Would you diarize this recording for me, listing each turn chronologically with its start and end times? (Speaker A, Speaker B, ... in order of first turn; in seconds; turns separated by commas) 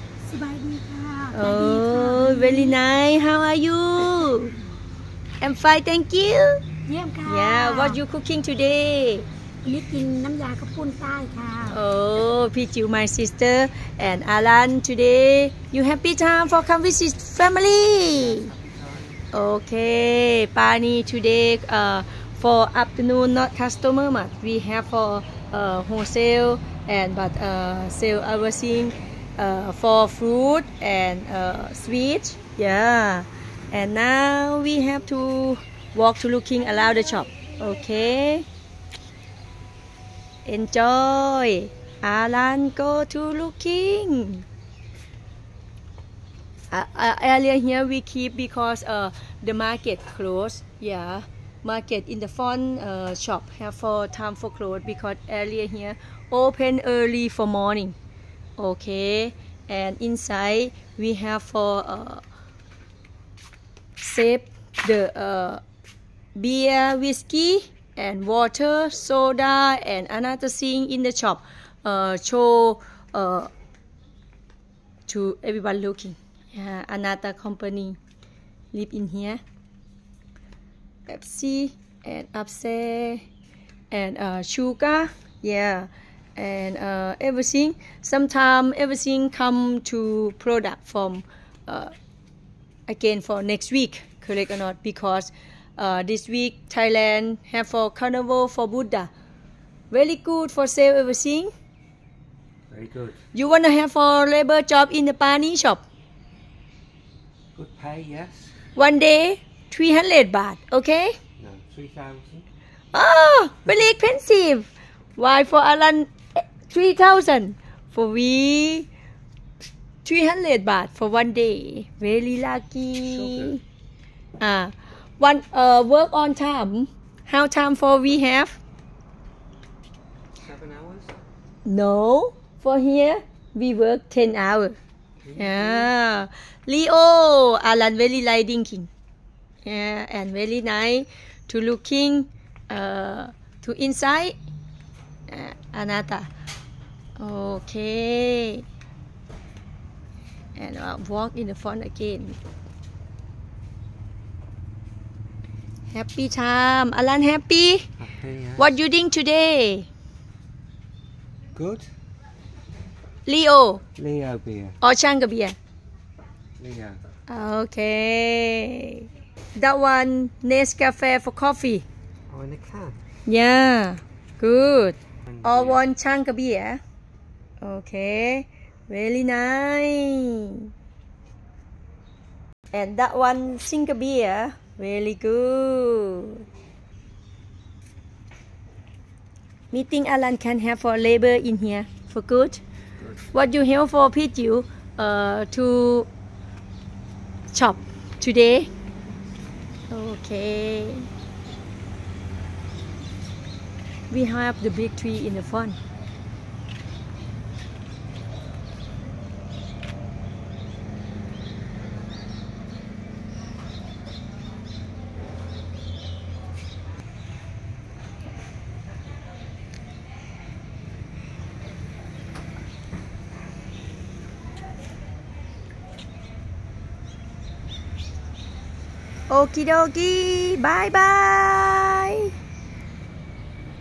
Speaker A: 0.2-2.8, Speaker B: 1.3-4.5, Speaker B: 5.4-6.6, Speaker A: 6.9-8.0, Speaker B: 7.2-9.3, Speaker A: 9.6-11.8, Speaker B: 11.7-18.5, Speaker C: 18.1-19.2, Speaker B: 19.3-38.5, Speaker B: 40.5-44.5, Speaker B: 46.7-58.0, Speaker B: 58.6-62.2, Speaker B: 64.0-65.6, Speaker B: 66.3-73.5, Speaker B: 75.1-78.0, Speaker B: 78.7-79.4, Speaker B: 81.1-83.2, Speaker B: 83.9-91.9, Speaker B: 92.9-99.1, Speaker B: 99.9-101.5, Speaker C: 102.7-103.2, Speaker B: 103.3-105.8, Speaker C: 107.5-108.5, Speaker B: 108.8-111.2, Speaker C: 111.4-112.5, Speaker B: 112.9-118.9, Speaker B: 120.0-123.6, Speaker C: 123.0-123.6, Speaker B: 124.4-128.6, Speaker C: 130.4-131.2, Speaker B: 131.7-134.8, Speaker C: 135.2-135.9, Speaker B: 135.4-138.9, Speaker B: 139.6-144.4, Speaker B: 145.3-146.3, Speaker B: 147.2-148.7, Speaker B: 150.6-152.4, Speaker B: 155.9-157.9, Speaker C: 158.0-158.7, Speaker B: 158.6-159.9, Speaker C: 161.6-161.9, Speaker B: 163.3-163.8, Speaker C: 163.9-164.8, Speaker B: 164.8-165.6, Speaker C: 166.6-167.0, Speaker B: 167.3-171.8, Speaker C: 172.3-173.0, Speaker B: 173.3-176.8, Speaker C: 175.3-175.8, Speaker B: 177.6-180.7, Speaker B: 182.7-186.4, Speaker B: 189.7-192.6, Speaker B: 193.3-196.1, Speaker B: 197.5-198.7, Speaker B: 199.9-201.1, Speaker B: 204.1-205.8, Speaker B: 229.3-232.3